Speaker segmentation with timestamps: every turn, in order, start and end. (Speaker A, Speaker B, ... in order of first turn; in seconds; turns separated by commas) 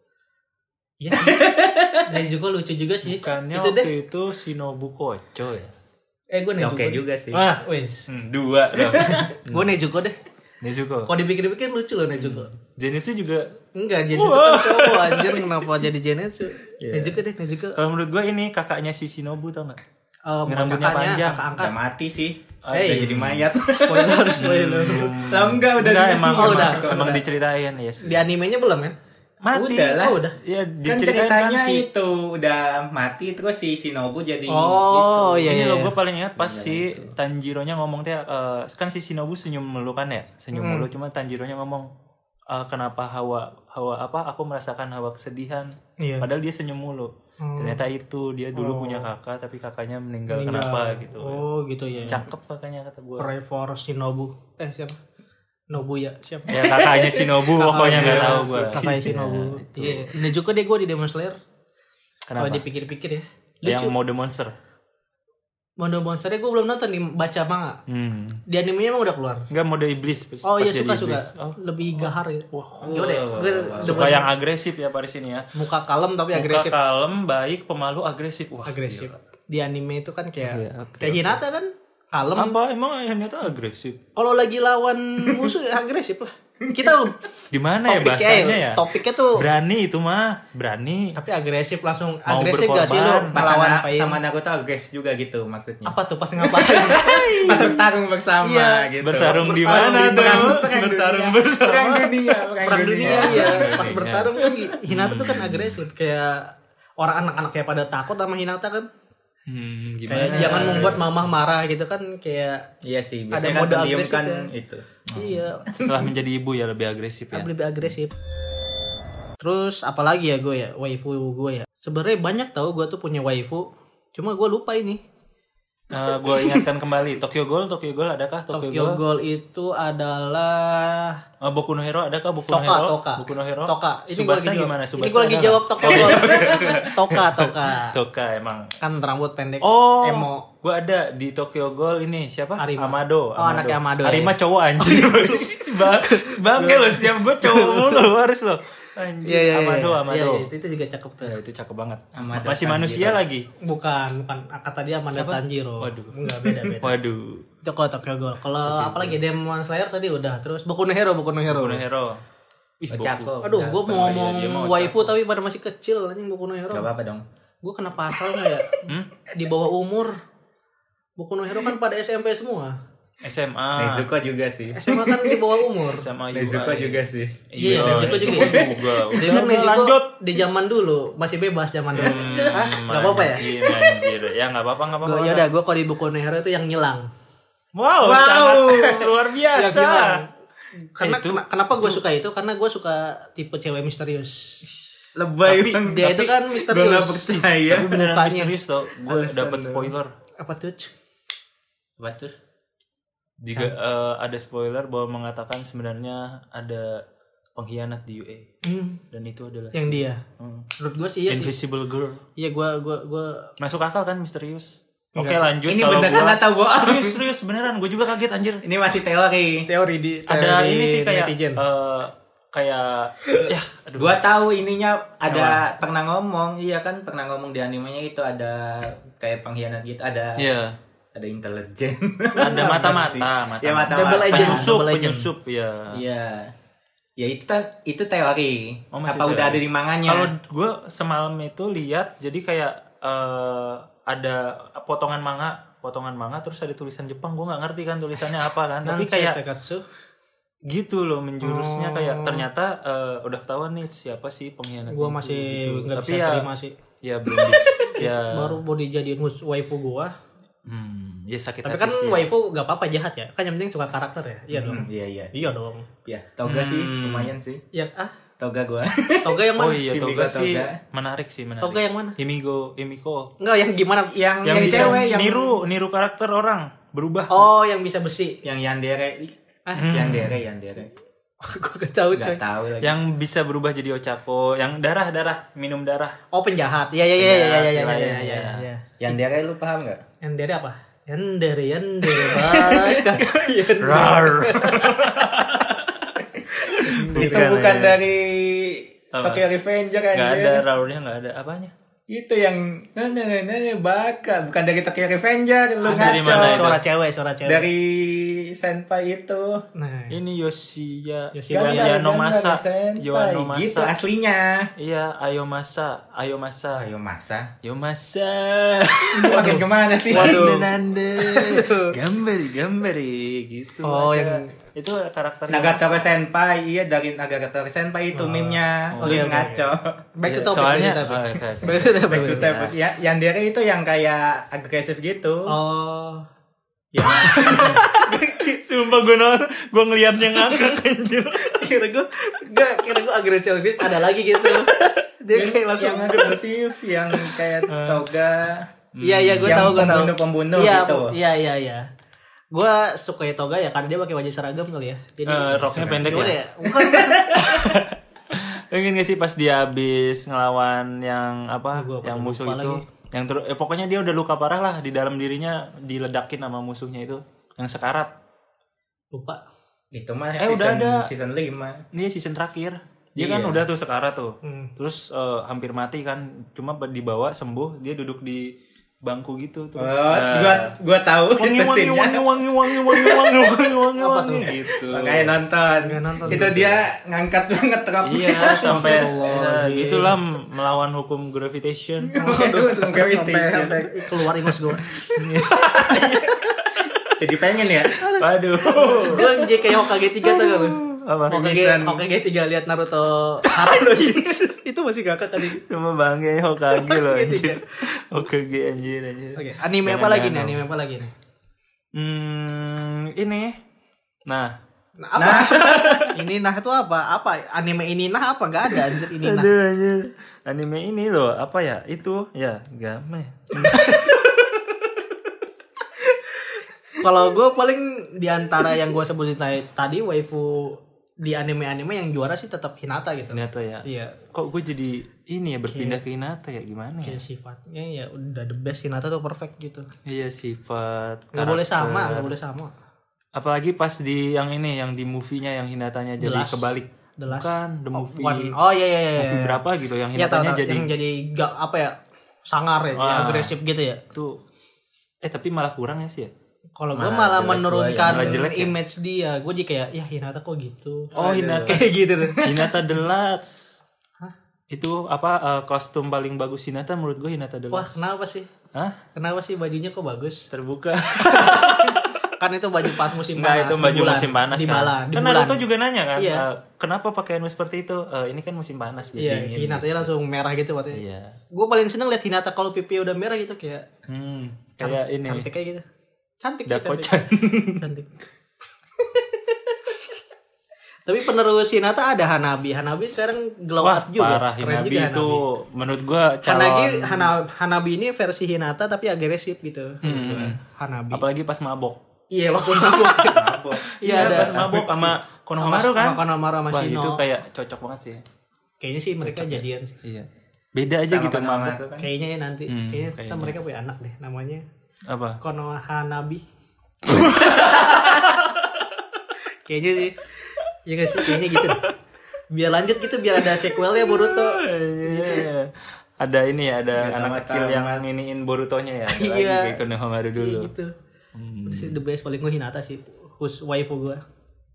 Speaker A: 1.0-1.5, Speaker B: 1.1-2.1, Speaker A: 2.1-3.9, Speaker C: 3.0-5.7, Speaker A: 6.3-7.0, Speaker B: 6.6-7.4, Speaker C: 7.3-9.7, Speaker A: 7.6-8.1, Speaker A: 8.8-10.2, Speaker C: 10.6-11.1, Speaker A: 11.1-12.5, Speaker C: 12.2-13.4, Speaker A: 13.8-17.8, Speaker C: 14.1-15.6, Speaker C: 16.8-17.2, Speaker C: 17.7-19.8, Speaker A: 20.3-21.7, Speaker C: 20.4-21.4, Speaker B: 21.5-27.1, Speaker C: 22.6-23.5, Speaker A: 22.7-23.2, Speaker A: 23.8-25.1, Speaker C: 24.4-28.2, Speaker A: 26.3-27.2, Speaker A: 28.0-28.9, Speaker C: 29.4-31.8, Speaker B: 29.5-30.2, Speaker A: 29.9-30.4, Speaker B: 30.8-35.5, Speaker A: 34.5-35.9, Speaker C: 35.4-41.9, Speaker B: 36.4-37.1, Speaker A: 40.5-40.9, Speaker C: 42.5-51.4, Speaker A: 46.0-46.3, Speaker A: 47.4-47.8, Speaker A: 48.5-49.1, Speaker A: 50.3-52.2, Speaker C: 52.0-53.3, Speaker A: 53.2-55.0, Speaker A: 55.7-61.4, Speaker C: 56.5-60.1, Speaker B: 57.9-58.8, Speaker C: 62.3-62.6, Speaker A: 62.4-63.9, Speaker C: 63.6-64.5, Speaker A: 65.8-67.8, Speaker C: 67.9-68.4, Speaker A: 68.5-69.5, Speaker C: 69.5-75.5, Speaker A: 70.4-74.3, Speaker B: 72.8-74.2, Speaker A: 75.5-76.8, Speaker C: 76.3-79.2, Speaker A: 78.7-82.5, Speaker C: 80.4-81.4, Speaker C: 82.3-84.0, Speaker A: 84.2-89.5, Speaker B: 86.7-87.0, Speaker C: 87.5-91.2, Speaker A: 91.2-94.2, Speaker C: 92.3-93.4, Speaker B: 93.3-104.5, Speaker A: 95.8-97.8, Speaker C: 96.7-97.7, Speaker A: 98.4-100.6, Speaker C: 99.0-104.3, Speaker A: 102.6-108.9, Speaker C: 104.9-105.8, Speaker C: 109.5-111.3, Speaker A: 110.1-112.7, Speaker B: 112.8-116.1, Speaker A: 113.3-114.5, Speaker A: 115.1-115.7, Speaker C: 115.8-117.5, Speaker A: 117.3-118.1, Speaker A: 119.4-125.0, Speaker C: 125.9-129.0, Speaker A: 128.5-131.2, Speaker C: 131.4-138.7, Speaker A: 132.5-138.0, Speaker B: 136.0-136.8, Speaker A: 138.8-140.4, Speaker C: 139.6-150.5, Speaker A: 142.6-148.1, Speaker A: 149.2-151.3, Speaker C: 151.2-153.4, Speaker B: 152.1-153.2, Speaker A: 153.6-156.9, Speaker C: 155.1-157.4, Speaker A: 157.6-161.8, Speaker C: 161.5-162.2, Speaker C: 162.8-165.2, Speaker B: 162.9-164.3, Speaker A: 163.4-166.9, Speaker B: 166.7-167.2, Speaker A: 167.6-170.2, Speaker A: 171.2-172.8, Speaker C: 173.2-174.1, Speaker B: 173.8-175.6, Speaker A: 174.7-176.1, Speaker C: 175.9-180.1, Speaker B: 176.3-178.9, Speaker A: 177.6-183.9, Speaker C: 181.9-185.5, Speaker B: 182.0-182.4, Speaker A: 185.0-187.1, Speaker C: 187.7-190.2, Speaker B: 188.0-189.1, Speaker A: 189.5-190.3, Speaker A: 190.9-194.6, Speaker C: 191.0-191.4, Speaker B: 195.2-198.0, Speaker C: 195.4-196.2, Speaker A: 195.8-198.5, Speaker C: 197.7-200.1, Speaker B: 199.1-199.9, Speaker A: 200.4-200.9, Speaker B: 202.0-202.3, Speaker C: 203.4-207.0, Speaker C: 207.6-208.5, Speaker A: 208.6-209.0, Speaker C: 209.1-210.7, Speaker A: 209.7-210.2, Speaker A: 210.8-211.5, Speaker C: 211.3-212.2, Speaker A: 212.4-213.5, Speaker C: 213.6-218.6, Speaker A: 215.1-215.5, Speaker B: 215.7-217.2, Speaker B: 218.6-219.7, Speaker A: 219.7-221.6, Speaker C: 220.3-224.2, Speaker B: 224.0-230.5, Speaker C: 225.3-225.6, Speaker C: 230.4-230.8, Speaker B: 231.1-234.8, Speaker A: 232.3-233.0, Speaker C: 232.4-236.0, Speaker A: 233.9-235.3, Speaker B: 235.9-236.5, Speaker B: 237.2-240.3, Speaker C: 238.9-249.4, Speaker A: 248.8-249.8, Speaker C: 250.7-256.5, Speaker A: 251.4-252.4, Speaker A: 254.9-256.7, Speaker C: 257.0-258.6, Speaker A: 257.3-260.1, Speaker C: 260.6-262.3, Speaker A: 261.6-265.9, Speaker B: 264.5-265.3, Speaker B: 266.0-267.6, Speaker C: 266.4-267.3, Speaker A: 267.7-268.1, Speaker B: 268.4-270.8, Speaker A: 269.2-269.8, Speaker C: 269.6-273.3, Speaker A: 271.6-272.1, Speaker A: 273.4-275.2, Speaker B: 274.1-275.6, Speaker C: 274.4-277.4, Speaker A: 277.3-278.4, Speaker B: 278.4-280.9, Speaker A: 279.7-280.1, Speaker C: 279.8-280.4, Speaker A: 281.4-282.4, Speaker B: 282.1-282.9, Speaker C: 282.8-286.2, Speaker A: 286.3-288.9, Speaker C: 287.2-288.6, Speaker B: 289.0-290.0, Speaker A: 290.2-295.5, Speaker B: 292.5-293.2, Speaker C: 293.8-296.0, Speaker A: 296.5-297.5, Speaker C: 296.7-298.0, Speaker B: 297.1-300.6, Speaker C: 299.1-299.4, Speaker C: 300.1-301.7, Speaker B: 302.1-306.8, Speaker A: 305.8-307.7, Speaker C: 305.9-306.8, Speaker B: 307.4-309.6, Speaker A: 309.8-310.1, Speaker C: 310.1-313.9, Speaker A: 311.3-312.0, Speaker B: 311.5-314.7, Speaker C: 314.8-316.9, Speaker B: 316.8-317.5, Speaker C: 317.6-326.0, Speaker B: 319.2-320.6, Speaker A: 320.1-321.9, Speaker A: 323.8-324.5, Speaker B: 325.5-329.9, Speaker A: 328.1-332.6, Speaker C: 328.9-329.3, Speaker C: 330.3-332.7, Speaker B: 332.1-335.6, Speaker A: 335.5-336.2, Speaker B: 336.9-337.8, Speaker A: 337.0-338.6, Speaker C: 337.2-341.7, Speaker A: 340.3-340.8, Speaker A: 341.4-346.4, Speaker C: 344.4-344.9, Speaker B: 345.3-348.7, Speaker C: 347.7-348.0, Speaker A: 349.0-351.9, Speaker C: 349.0-349.9, Speaker B: 349.4-351.1, Speaker A: 352.5-357.4, Speaker C: 355.2-356.4, Speaker B: 355.6-356.3, Speaker B: 356.9-357.6, Speaker C: 357.3-368.1, Speaker A: 361.7-362.8, Speaker A: 369.1-369.4, Speaker B: 369.9-371.8, Speaker C: 370.4-371.1, Speaker C: 371.9-378.5, Speaker B: 373.1-373.6, Speaker A: 374.4-374.7, Speaker C: 379.0-380.8, Speaker B: 379.8-383.6, Speaker C: 381.4-385.4, Speaker A: 384.0-384.6, Speaker B: 384.8-389.2, Speaker A: 385.8-386.6, Speaker C: 386.3-386.8, Speaker C: 388.0-392.1, Speaker A: 388.4-390.1, Speaker B: 392.0-396.1, Speaker A: 392.2-394.8, Speaker C: 395.1-397.1, Speaker A: 395.9-396.3, Speaker B: 397.2-397.9, Speaker C: 397.8-399.4, Speaker A: 398.0-400.8, Speaker B: 399.0-399.2, Speaker C: 400.2-401.4, Speaker B: 401.3-402.1, Speaker A: 401.3-405.6, Speaker C: 403.5-404.3, Speaker C: 405.5-410.6, Speaker A: 406.7-407.6, Speaker A: 409.4-411.1, Speaker C: 411.9-413.6, Speaker C: 414.3-414.5, Speaker A: 415.0-419.5, Speaker B: 415.1-416.1, Speaker C: 415.2-416.2, Speaker C: 418.9-424.5, Speaker A: 423.6-424.1, Speaker A: 426.4-434.2, Speaker C: 433.3-437.2, Speaker A: 435.7-436.0, Speaker A: 437.0-439.9, Speaker C: 440.1-442.3, Speaker A: 441.3-442.7, Speaker C: 443.3-448.6, Speaker A: 446.2-449.6, Speaker C: 449.1-450.9, Speaker A: 450.1-451.9, Speaker A: 452.5-454.0, Speaker C: 452.9-453.5, Speaker C: 454.1-454.4, Speaker C: 455.2-456.3, Speaker A: 456.8-461.1, Speaker B: 456.9-458.4, Speaker C: 458.1-458.7, Speaker B: 461.1-462.7, Speaker C: 461.1-463.8, Speaker A: 461.7-462.5, Speaker C: 464.7-468.1, Speaker A: 467.7-468.5, Speaker A: 469.1-470.4, Speaker C: 470.5-472.2, Speaker A: 471.1-475.6, Speaker C: 472.8-479.9, Speaker A: 476.1-476.4, Speaker A: 479.2-483.9, Speaker C: 480.9-481.4, Speaker C: 484.1-485.5, Speaker A: 484.8-485.8, Speaker A: 486.4-488.1, Speaker C: 486.7-487.9, Speaker A: 489.1-490.0, Speaker A: 491.1-495.4, Speaker C: 493.8-497.3, Speaker A: 496.4-501.2, Speaker C: 500.0-500.6, Speaker C: 501.1-502.0, Speaker A: 502.3-504.8, Speaker C: 502.8-503.3, Speaker B: 503.2-505.1, Speaker C: 504.0-508.2, Speaker A: 505.6-507.2, Speaker A: 508.8-509.9, Speaker C: 509.2-511.8, Speaker B: 511.1-512.1, Speaker A: 512.0-514.6, Speaker C: 512.7-513.5, Speaker C: 515.1-515.4, Speaker A: 515.4-516.4, Speaker C: 517.1-518.8, Speaker A: 517.2-518.4, Speaker A: 519.6-521.8, Speaker C: 521.1-521.9, Speaker A: 522.5-525.5, Speaker C: 523.4-530.7, Speaker B: 526.9-528.0, Speaker A: 529.1-529.8, Speaker A: 530.4-530.9, Speaker C: 531.3-532.0, Speaker A: 531.6-534.2